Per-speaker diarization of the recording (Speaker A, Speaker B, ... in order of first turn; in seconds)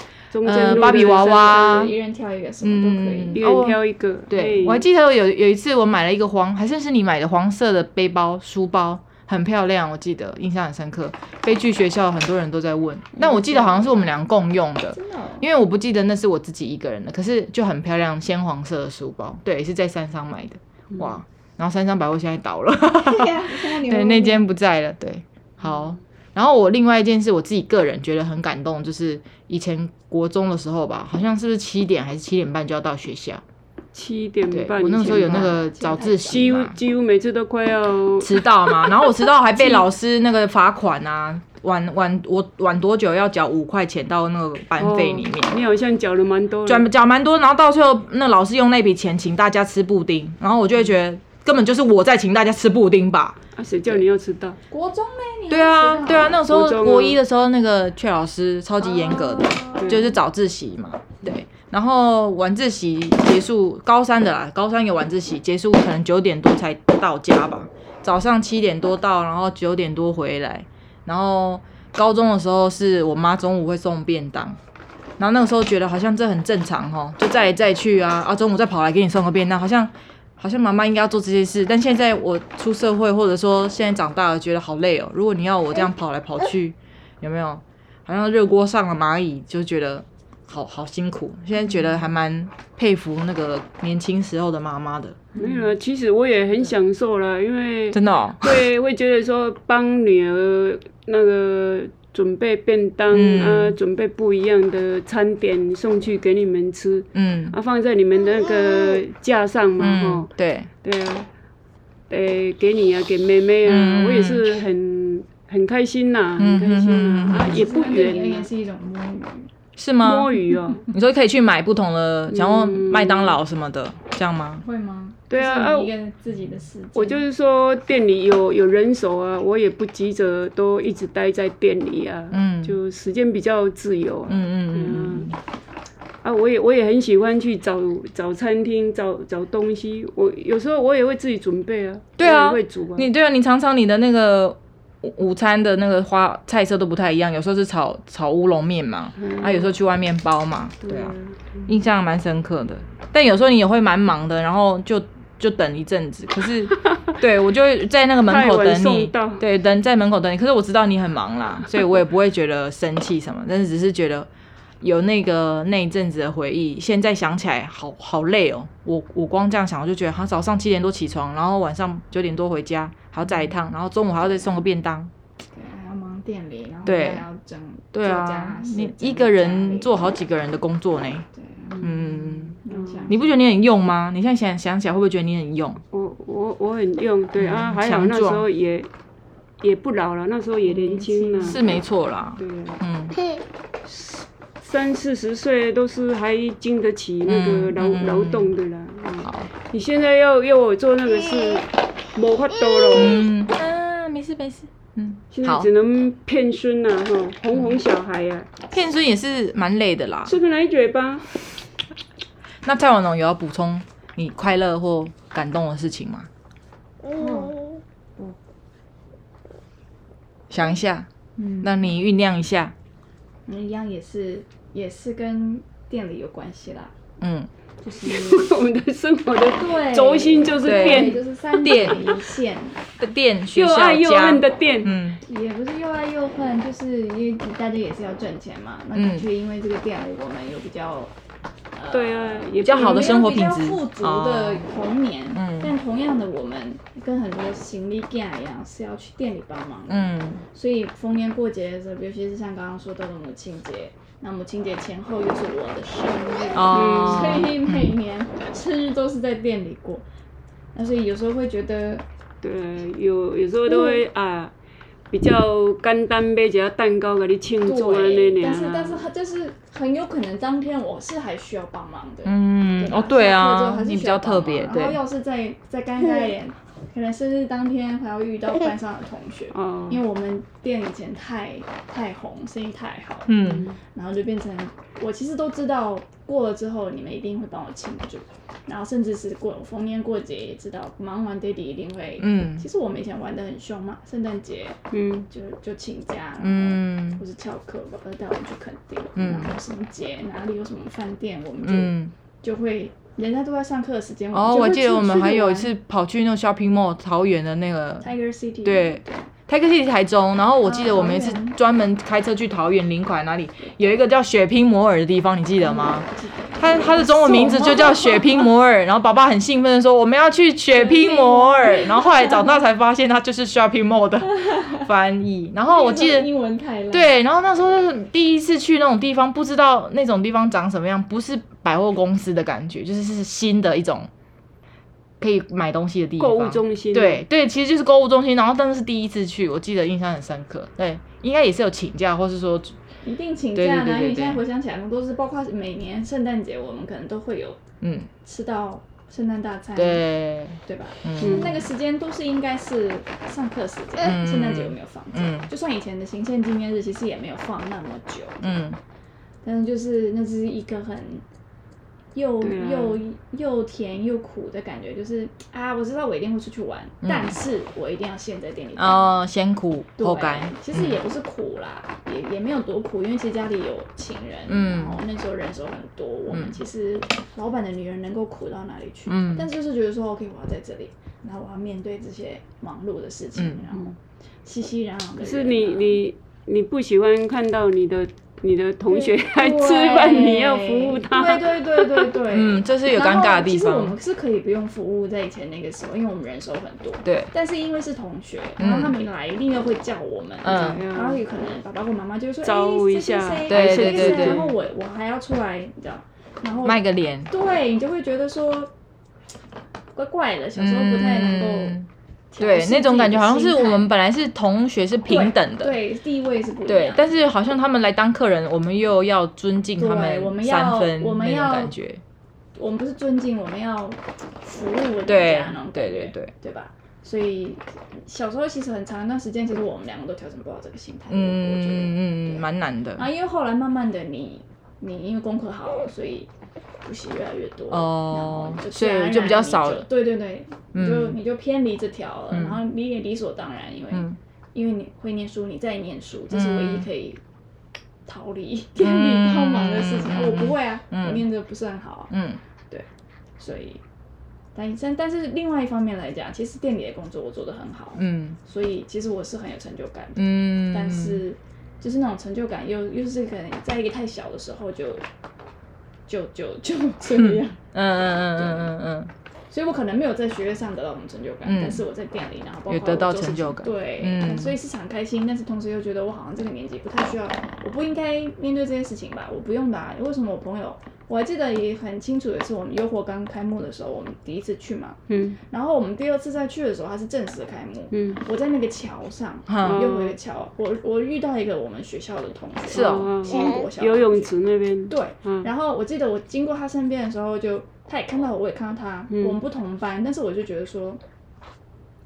Speaker A: 0.3-1.6, 3.4-4.8, 33.9-35.5, 36.2-39.0, 44.8-46.9, 53.5-54.6, 56.5-57.2, 59.8-60.1, 95.4-110.3, 110.8-111.3, 112.1-118.5, 120.0-120.8, 122.3-123.4, 125.3-125.9, 126.9-135.3, 136.2-143.1, 149.2-149.7, 150.8-151.7, 158.2-159.4, 181.7-183.1, 185.9-188.9, 189.6-191.6, 192.4-192.8, 193.8-203.3, 205.3-208.5, 210.2-211.3, 228.0-232.2, 233.5-234.9, 241.9-243.2, 256.7-257.4, 262.4-264.5, 265.1-269.1, 279.5-280.0, 283.4-283.8, 294.9-295.3, 336.2-337.2, 351.2-351.5, 362.4-363.0, 385.2-392.1, 400.5-401.2, 402.4-404.5, 485.1-485.4, 487.9-488.2, 489.6-490.1, 492.7-495.5, 499.1-499.4
Speaker B: 0.4-1.9, 2.6-33.4, 34.5-36.8, 38.2-45.6, 46.6-54.0, 55.5-74.6, 75.2-95.3, 97.9-98.5, 103.1-103.8, 107.1-107.5, 109.8-110.7, 113.6-114.5, 116.4-117.6, 119.8-120.3, 120.9-124.6, 132.3-132.8, 134.3-135.4, 142.2-151.1, 151.7-164.3, 164.8-175.1, 176.8-177.2, 177.9-181.3, 181.8-182.6, 183.1-185.8, 187.4-188.5, 191.4-193.2, 197.3-198.5, 199.2-199.5, 202.9-205.7, 207.5-207.8, 208.7-210.3, 212.6-216.3, 220.5-221.1, 221.6-222.7, 227.2-227.5, 230.6-232.1, 233.0-235.2, 238.9-239.3, 242.6-244.7, 245.3-245.7, 249.9-250.4, 256.5-257.9, 272.2-275.0, 283.3-283.7, 292.2-292.6, 296.4-297.2, 299.1-299.5, 301.6-302.1, 304.3-308.1, 308.6-326.3, 326.9-334.1, 335.2-342.8, 343.5-344.4, 347.8-348.1, 349.8-351.6, 354.0-355.5, 358.4-358.8, 367.0-367.4, 368.8-371.0, 374.5-375.0, 376.3-376.6, 379.1-379.5, 383.4-383.6, 392.3-393.9, 397.0-397.3, 398.6-398.9, 400.4-400.8, 403.5-404.5, 406.6-407.3, 410.6-411.9, 412.4-415.8, 416.7-422.0, 425.1-426.3, 431.1-433.1, 437.7-439.9, 440.7-441.2, 442.3-442.6, 443.9-444.2, 446.3-446.9, 448.8-451.2, 452.1-452.4, 458.0-458.4, 460.1-461.2, 467.1-469.1, 471.4-471.8, 472.7-474.6, 489.5-489.8, 492.7-493.1
Speaker C: 0.5-3.4, 13.2-14.0, 14.9-15.5, 23.0-24.4, 34.9-36.5, 54.7-56.4, 58.8-60.1, 95.3-95.7, 117.3-119.5, 124.6-127.2, 175.5-179.9, 181.3-183.3, 190.7-191.8, 217.1-217.6, 221.4-221.8, 223.5-226.9, 227.8-228.5, 229.5-232.8, 235.2-241.1, 241.7-260.0, 260.7-262.0, 263.6-264.0, 267.6-294.8, 295.3-305.7, 308.0-309.3, 310.6-311.6, 315.6-318.5, 320.7-322.6, 324.3-324.9, 325.6-327.1, 343.0-347.6, 348.2-358.6, 359.4-361.2, 362.1-369.1, 370.0-386.0, 388.9-408.7, 409.9-411.8, 412.3-413.9, 415.1-417.2, 419.8-421.7, 422.6-436.3, 436.8-447.2, 448.1-452.1, 453.4-453.8, 454.5-465.0, 466.1-467.6, 468.3-468.7, 469.5-485.0, 485.5-494.3, 494.9-501.0